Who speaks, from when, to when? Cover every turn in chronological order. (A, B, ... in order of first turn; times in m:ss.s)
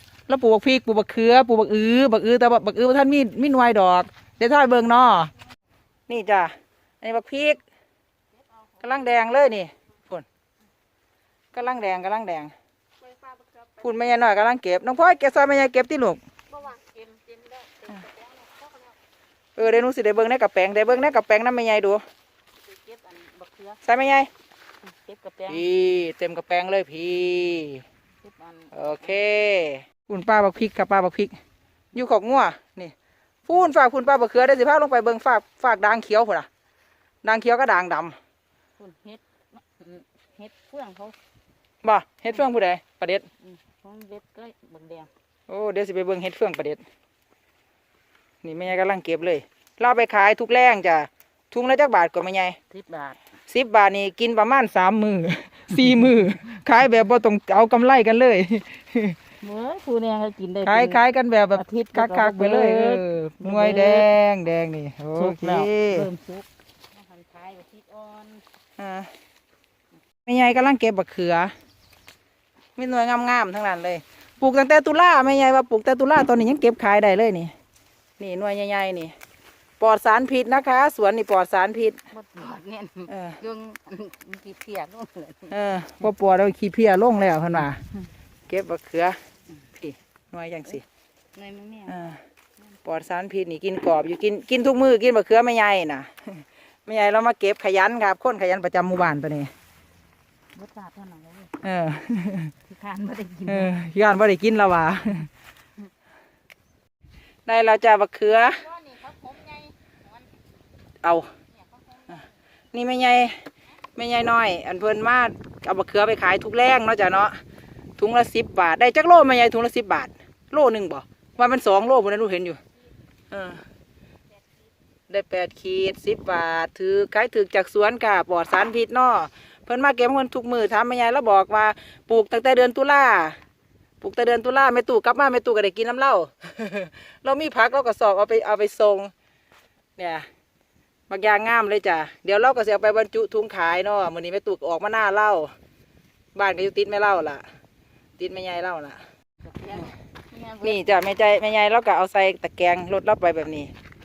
0:00.3-0:05.3 A
0:06.1-0:07.6 A
0:08.8-0:10.2 A
0:11.5-0:12.5 A
0:13.8-0:16.2 A
0:16.5-0:18.9 B
0:19.6-0:22.0 A
0:22.6-0:23.8 B
0:23.8-0:24.3 A
0:24.8-0:25.6 B
0:25.5-0:27.8 A
0:28.2-0:29.1 B
0:28.7-0:31.3 A
0:31.9-0:32.9 A
0:33.5-0:36.5 A
0:37.2-0:38.2 A
0:38.8-0:41.2 B
0:41.8-0:43.2 A
0:43.4-0:45.1 B
0:45.5-0:46.8 A
0:48.4-0:52.6 A
0:52.7-0:53.2 B
0:53.5-0:59.2 A
0:59.4-1:01.0 B
1:00.6-1:06.1 A
1:01.5-1:04.1 B
1:05.1-1:08.4 B
1:08.8-1:09.1 A
1:10.2-1:11.5 A
1:12.8-1:17.5 A
1:18.2-1:19.1 A
1:19.8-1:22.0 A
1:22.1-1:25.5 B
1:23.1-1:23.4 A
1:25.5-1:27.8 A
1:28.5-1:29.2 A
1:29.8-1:30.8 A
1:31.3-1:32.2 B
1:31.9-1:32.2 A
1:32.8-1:39.5 A
1:40.5-1:41.6 B
1:41.6-1:42.5 A
1:42.7-1:43.8 B
1:43.5-1:45.3 A
1:47.4-1:48.6 A
1:48.5-1:50.2 B
1:51.0-1:51.3 A
1:51.7-1:52.2 B
1:52.7-1:53.4 A
1:53.9-1:57.4 A
1:58.0-2:02.6 A
2:03.3-2:03.6 A
2:05.1-2:13.4 A
2:14.0-2:19.1 A
2:20.0-2:20.2 A
2:21.1-2:25.5 A
2:26.3-2:27.4 A
2:28.2-2:29.0 A
2:29.4-2:31.0 B
2:30.6-2:33.7 A